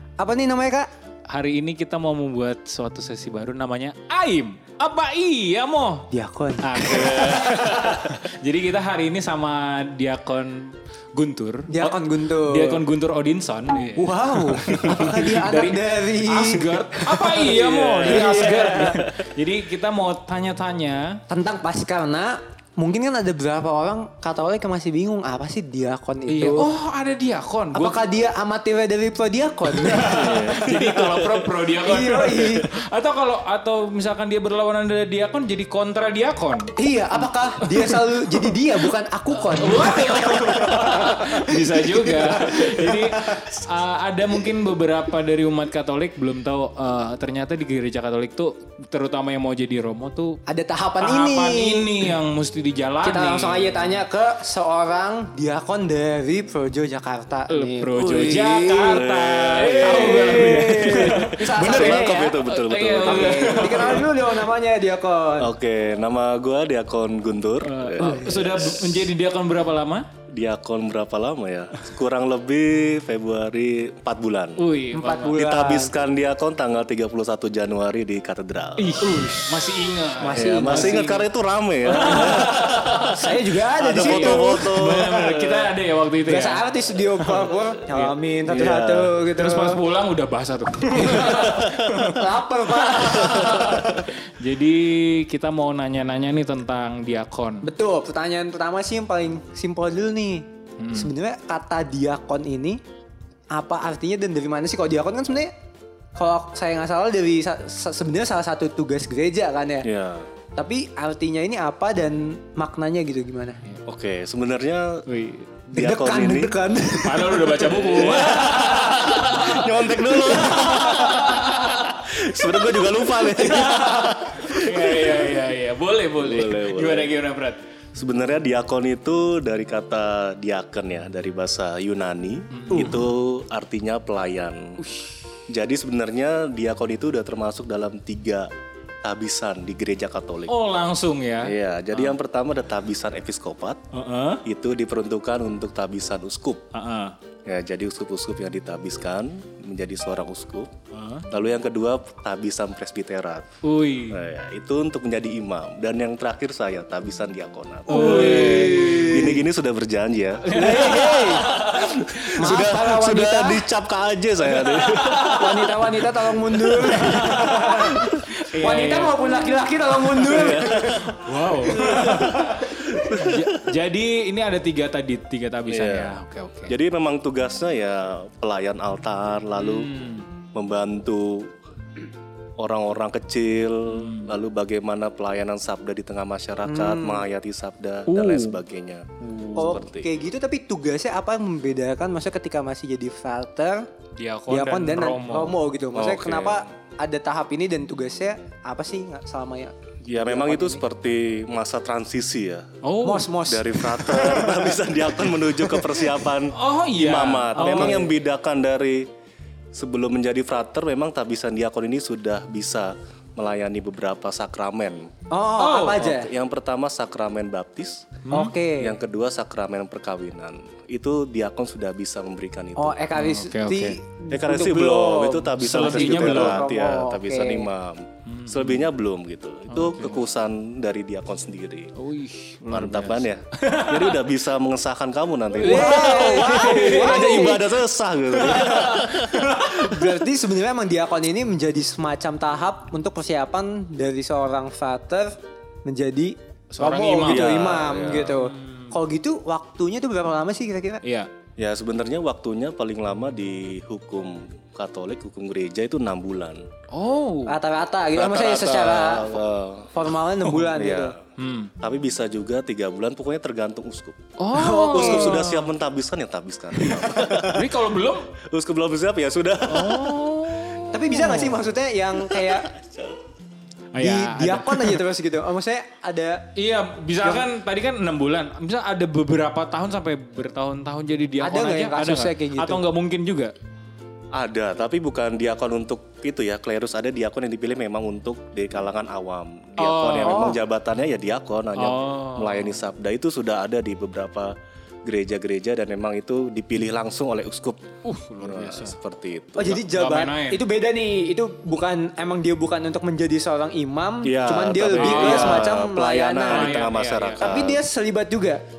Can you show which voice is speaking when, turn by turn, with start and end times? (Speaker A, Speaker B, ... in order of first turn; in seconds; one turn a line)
Speaker A: 0.2-0.9
Speaker B: 1.3-6.1
Speaker A: 6.1-7.4
Speaker B: 6.6-21.2
Speaker C: 6.8-8.2
Speaker A: 11.7-12.8
Speaker A: 13.9-19.0
Speaker C: 17.5-18.7
Speaker A: 21.3-26.7
Speaker B: 26.3-28.0
Speaker A: 27.7-30.3
Speaker B: 29.7-36.7
Speaker C: 30.1-31.5
Speaker A: 31.8-32.7
Speaker A: 36.8-43.5
Speaker B: 37.6-38.5
Speaker B: 39.4-50.4
Speaker A: 50.5-52.1
Speaker B: 51.0-53.8
Speaker A: 53.0-59.0
Speaker B: 57.5-64.3
Speaker C: 58.9-64.1
Speaker A: 59.8-62.4
Speaker A: 63.0-65.5
Speaker C: 65.4-69.1
Speaker B: 67.6-70.1
Speaker A: 68.0-68.6
Speaker C: 70.3-74.7
Speaker B: 74.6-75.4
Speaker A: 74.9-75.9
Speaker C: 75.3-79.1
Speaker B: 78.8-81.2
Speaker A: 79.0-81.2
Speaker C: 80.3-85.7
Speaker B: 81.9-83.2
Speaker A: 81.9-82.5
Speaker A: 83.1-85.0
Speaker B: 83.9-86.7
Speaker A: 86.2-89.8
Speaker B: 87.2-88.1
Speaker C: 88.5-89.1
Speaker B: 89.3-92.3
Speaker A: 90.9-94.0
Speaker C: 91.3-91.8
Speaker B: 92.8-97.7
Speaker C: 93.3-94.0
Speaker A: 97.6-102.8
Speaker B: 100.8-101.1
Speaker A: 103.5-105.5
Speaker A: 106.2-109.9
Speaker C: 109.8-110.3
Speaker A: 110.6-113.6
Speaker C: 113.9-115.1
Speaker B: 115.1-115.5
Speaker C: 115.7-116.5
Speaker A: 115.7-117.8
Speaker B: 117.0-121.9
Speaker C: 117.6-125.4
Speaker B: 122.6-127.6
Speaker C: 126.2-127.1
Speaker C: 127.9-134.8
Speaker B: 132.5-133.1
Speaker B: 134.8-135.1
Speaker C: 135.5-138.5
Speaker C: 139.0-140.6
Speaker B: 140.5-142.2
Speaker C: 141.4-143.8
Speaker B: 143.9-144.4
Speaker C: 144.4-146.6
Speaker B: 146.7-147.2
Speaker C: 147.5-150.7
Speaker B: 150.9-151.2
Speaker C: 151.3-153.4
Speaker B: 153.6-154.2
Speaker C: 154.1-165.7
Speaker B: 157.9-159.3
Speaker A: 157.9-159.4
Speaker A: 160.4-161.5
Speaker B: 160.4-162.7
Speaker A: 162.4-163.6
Speaker B: 164.5-165.7
Speaker A: 165.3-168.0
Speaker B: 166.7-169.3
Speaker C: 166.8-168.1
Speaker A: 168.6-171.1
Speaker C: 170.1-173.5
Speaker B: 171.1-176.8
Speaker C: 175.7-176.2
Speaker C: 176.7-179.9
Speaker B: 179.6-180.3
Speaker C: 180.5-181.5
Speaker C: 182.6-190.1
Speaker B: 183.9-184.3
Speaker A: 186.7-187.2
Speaker B: 188.1-188.6
Speaker A: 189.5-193.8
Speaker B: 194.2-195.6
Speaker A: 194.5-200.8
Speaker C: 195.9-196.6
Speaker C: 200.1-202.7
Speaker B: 202.8-203.3
Speaker A: 203.0-204.6
Speaker C: 203.4-209.1
Speaker B: 204.1-204.5
Speaker B: 206.5-208.1
Speaker A: 207.6-208.0
Speaker C: 209.7-215.1
Speaker A: 215.3-216.3
Speaker B: 215.6-216.1
Speaker C: 216.0-218.2
Speaker B: 218.2-218.5
Speaker A: 218.3-219.0
Speaker C: 218.8-223.0
Speaker A: 222.8-227.7
Speaker B: 223.1-224.0
Speaker C: 224.3-231.9
Speaker B: 225.6-226.6
Speaker B: 228.3-228.9
Speaker B: 229.7-230.2
Speaker B: 231.9-234.2
Speaker C: 232.7-239.7
Speaker A: 235.6-237.7
Speaker B: 235.6-237.7
Speaker B: 238.3-240.1
Speaker A: 239.7-251.0
Speaker B: 246.7-248.9
Speaker C: 247.2-248.4
Speaker B: 251.0-251.3
Speaker C: 251.6-256.6
Speaker B: 256.9-257.6
Speaker A: 257.5-261.1
Speaker C: 258.1-260.0
Speaker C: 260.6-261.1
Speaker B: 261.4-261.7
Speaker C: 261.8-264.2
Speaker B: 264.4-265.7
Speaker A: 264.5-265.4
Speaker C: 264.9-267.8
Speaker B: 266.8-268.3
Speaker C: 268.4-270.3
Speaker B: 269.6-271.6
Speaker A: 270.9-272.7
Speaker C: 272.3-273.1
Speaker B: 273.9-275.0
Speaker A: 274.0-276.4
Speaker B: 276.6-283.5
Speaker A: 277.2-277.5
Speaker A: 281.4-282.8
Speaker C: 284.3-294.5
Speaker B: 289.8-290.5
Speaker A: 290.2-290.6
Speaker B: 291.8-292.8
Speaker C: 295.1-297.8
Speaker B: 298.1-298.9
Speaker C: 298.4-299.9
Speaker A: 299.6-306.9
Speaker B: 299.8-300.6
Speaker C: 304.2-307.8
Speaker B: 304.9-305.8
Speaker B: 306.4-307.6
Speaker A: 307.4-308.6